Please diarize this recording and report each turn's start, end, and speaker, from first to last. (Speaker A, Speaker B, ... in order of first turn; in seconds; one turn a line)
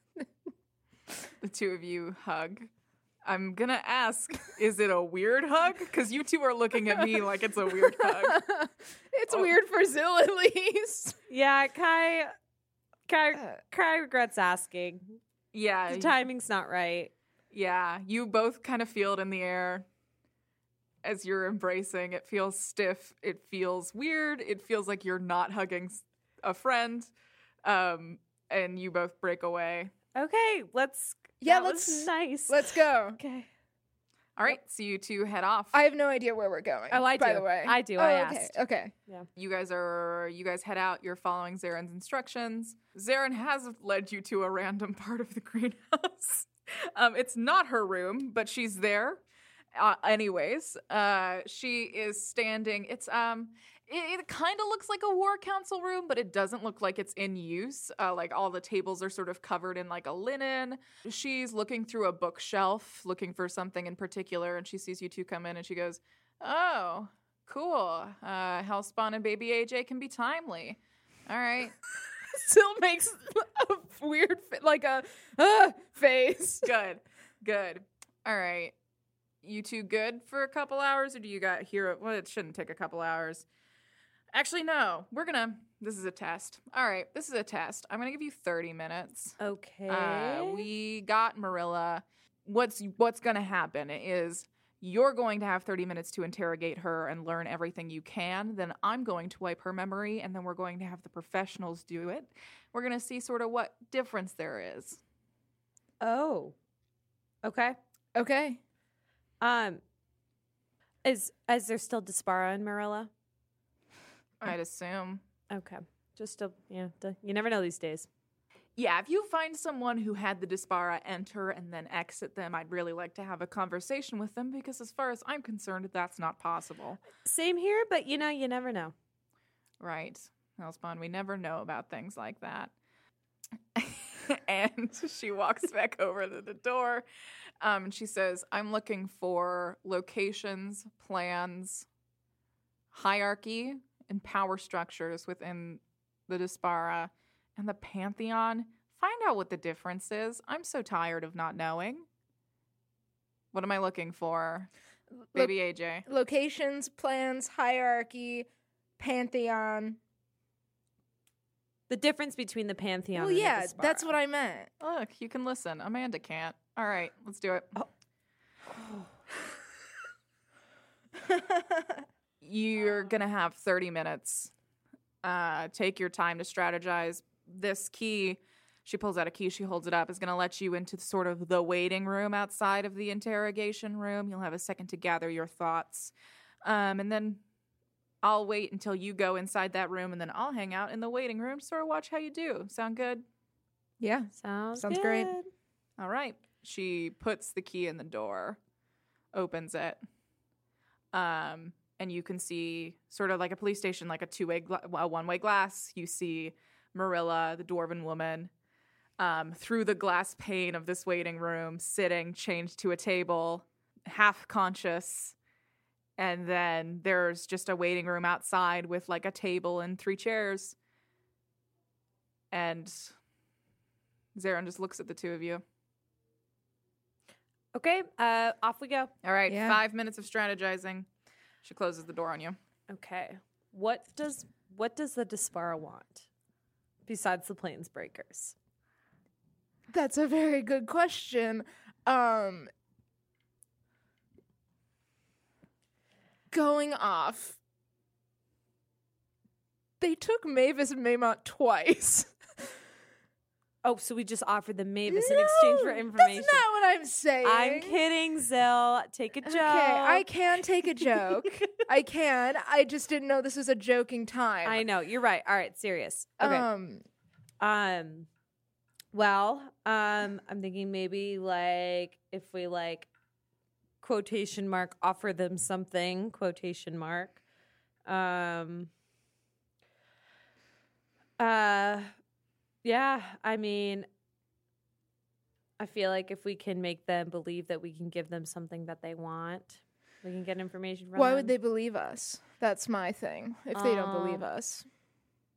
Speaker A: 1.4-2.7
Speaker A: 3.2-8.4
Speaker B: 8.0-11.2
Speaker C: 11.3-12.3
Speaker C: 13.1-15.2
Speaker A: 15.5-16.2
Speaker C: 15.9-17.1
Speaker A: 17.5-19.9
Speaker A: 21.0-27.1
Speaker A: 27.6-29.9
Speaker C: 30.1-33.5
Speaker B: 31.4-33.2
Speaker A: 34.4-35.8
Speaker B: 35.7-38.9
Speaker C: 36.9-38.6
Speaker A: 39.4-49.2
Speaker A: 49.8-71.8
Speaker B: 72.3-76.7
Speaker A: 76.6-78.7
Speaker A: 79.4-83.5
Speaker A: 84.3-105.0
Speaker C: 89.4-90.7
Speaker C: 106.0-106.5
Speaker C: 107.4-107.8
Speaker B: 108.2-108.6
Speaker C: 109.4-109.8
Speaker C: 111.0-113.1
Speaker A: 114.4-115.2
Speaker C: 115.5-118.1
Speaker A: 118.8-127.0
Speaker C: 127.2-128.9
Speaker A: 129.8-132.7
Speaker A: 133.8-137.1
Speaker A: 137.6-141.9
Speaker A: 142.9-152.1
Speaker A: 153.5-154.7
Speaker B: 155.3-158.5
Speaker A: 155.3-156.1
Speaker B: 159.0-160.0
Speaker C: 161.9-164.1
Speaker B: 163.2-164.7
Speaker A: 164.8-167.8
Speaker B: 171.3-172.0
Speaker A: 172.4-174.5
Speaker A: 175.2-186.1
Speaker A: 186.6-187.4
Speaker A: 188.2-193.2
Speaker B: 194.0-195.3
Speaker C: 194.4-195.5
Speaker A: 196.0-198.6
Speaker A: 199.3-200.0
Speaker A: 201.1-208.5
Speaker A: 209.2-215.4
Speaker A: 216.2-220.8
Speaker A: 222.5-223.2
Speaker A: 224.3-225.6
Speaker C: 227.7-229.1
Speaker A: 229.2-231.1
Speaker B: 229.5-229.8
Speaker A: 231.6-232.6
Speaker C: 232.9-236.3
Speaker C: 237.1-238.6
Speaker B: 239.9-242.7
Speaker B: 246.5-247.6
Speaker B: 250.0-252.3
Speaker C: 253.8-256.6
Speaker B: 255.1-258.0
Speaker C: 257.4-260.3
Speaker B: 259.4-264.8
Speaker C: 261.0-261.7
Speaker C: 264.6-266.7
Speaker B: 266.4-267.1
Speaker C: 267.6-268.3
Speaker C: 269.1-273.1
Speaker C: 274.0-277.4
Speaker C: 278.1-278.9
Speaker C: 281.4-282.1
Speaker C: 282.8-284.1
Speaker C: 285.8-291.5
Speaker B: 291.2-294.9
Speaker C: 293.7-294.4